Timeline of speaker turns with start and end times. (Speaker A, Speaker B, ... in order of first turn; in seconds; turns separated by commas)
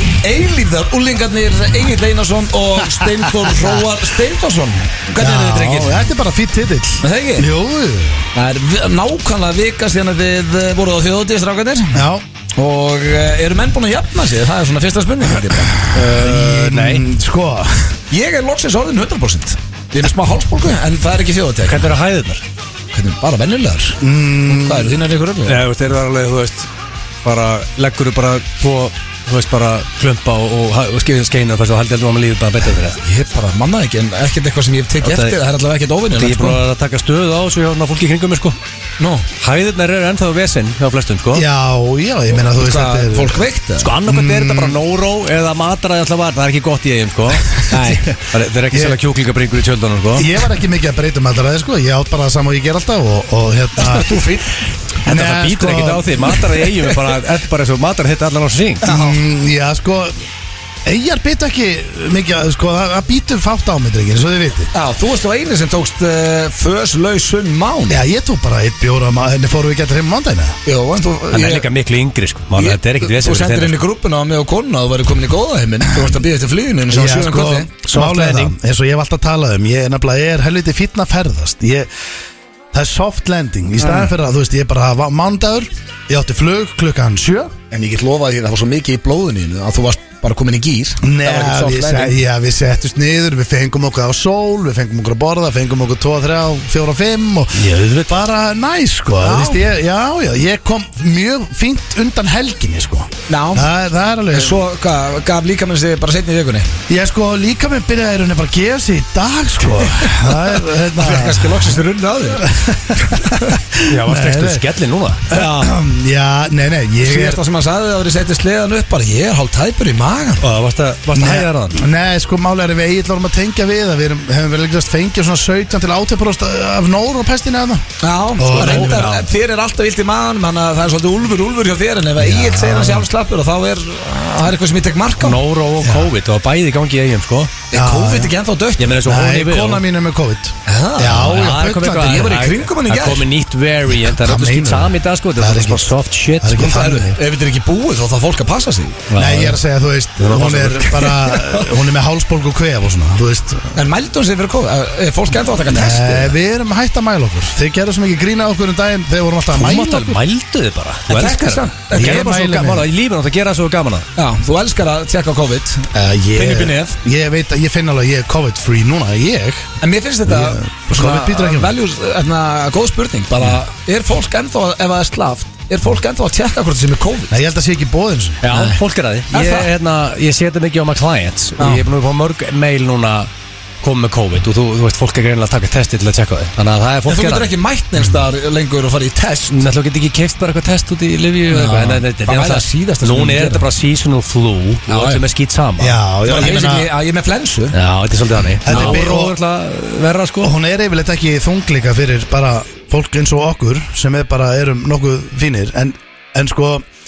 Speaker A: 0.2-6.0, Speaker B: 3.0-3.7, Speaker B: 5.2-8.3, Speaker A: 7.0-7.5, Speaker A: 8.3-12.0, Speaker B: 11.9-12.2, Speaker A: 12.6-15.9, Speaker C: 15.9-17.1, Speaker B: 16.0-18.0, Speaker A: 18.1-21.9, Speaker C: 21.6-22.4, Speaker A: 22.9-25.6, Speaker B: 24.0-25.0, Speaker C: 25.5-26.7, Speaker C: 27.2-33.0, Speaker A: 33.0-36.6, Speaker C: 35.0-35.4, Speaker C: 36.1-38.6, Speaker A: 39.0-39.3, Speaker C: 39.4-41.5, Speaker B: 41.3-43.5, Speaker A: 42.3-43.9, Speaker C: 43.8-50.3, Speaker B: 44.0-44.8, Speaker A: 47.7-48.0, Speaker B: 50.1-54.2, Speaker A: 53.8-54.5, Speaker C: 55.0-58.9, Speaker B: 55.1-56.4, Speaker A: 58.8-59.2, Speaker B: 58.8-60.1, Speaker B: 60.9-64.7, Speaker A: 64.7-68.0, Speaker B: 67.9-70.6, Speaker A: 70.7-71.7, Speaker C: 71.3-73.8, Speaker A: 72.6-77.7, Speaker B: 75.8-76.1, Speaker B: 76.9-81.9, Speaker C: 77.9-78.5, Speaker B: 82.7-87.5, Speaker A: 83.8-84.1, Speaker A: 87.7-92.2, Speaker B: 91.0-104.7, Speaker C: 97.6-98.1, Speaker A: 99.2-99.7, Speaker A: 103.3-103.7, Speaker A: 104.3-106.7, Speaker B: 106.9-111.8, Speaker A: 109.8-113.5, Speaker B: 112.4-114.6, Speaker C: 113.8-115.7, Speaker B: 115.3-117.4, Speaker A: 117.0-120.5, Speaker C: 120.4-121.8, Speaker B: 121.1-127.8, Speaker A: 128.0-135.4, Speaker B: 128.4-129.1, Speaker C: 128.5-129.3, Speaker B: 132.2-133.1, Speaker C: 135.2-137.6, Speaker B: 135.8-136.1, Speaker A: 137.7-139.0, Speaker B: 137.7-138.3, Speaker C: 138.8-139.8, Speaker B: 139.1-142.2, Speaker A: 140.7-143.3, Speaker C: 141.2-146.8, Speaker B: 143.9-147.2, Speaker A: 146.6-149.0, Speaker C: 149.1-149.6, Speaker B: 149.2-153.8, Speaker C: 150.2-151.0, Speaker A: 151.0-151.8, Speaker A: 153.8-156.3, Speaker B: 155.7-160.2, Speaker C: 159.5-164.1, Speaker A: 161.1-162.4, Speaker B: 161.9-162.9, Speaker A: 164.2-167.0, Speaker B: 165.9-169.7, Speaker A: 169.8-177.4, Speaker B: 170.3-171.8, Speaker B: 177.3-178.4, Speaker C: 178.4-183.3, Speaker A: 178.5-178.8, Speaker A: 179.3-179.7, Speaker A: 181.6-181.8, Speaker C: 183.8-187.5, Speaker A: 187.1-189.7, Speaker C: 189.5-196.0, Speaker A: 191.5-193.7, Speaker A: 194.9-195.2, Speaker B: 195.8-196.9, Speaker A: 196.2-197.8, Speaker C: 197.7-200.5, Speaker B: 198.7-199.4, Speaker A: 198.7-199.0, Speaker B: 200.4-206.9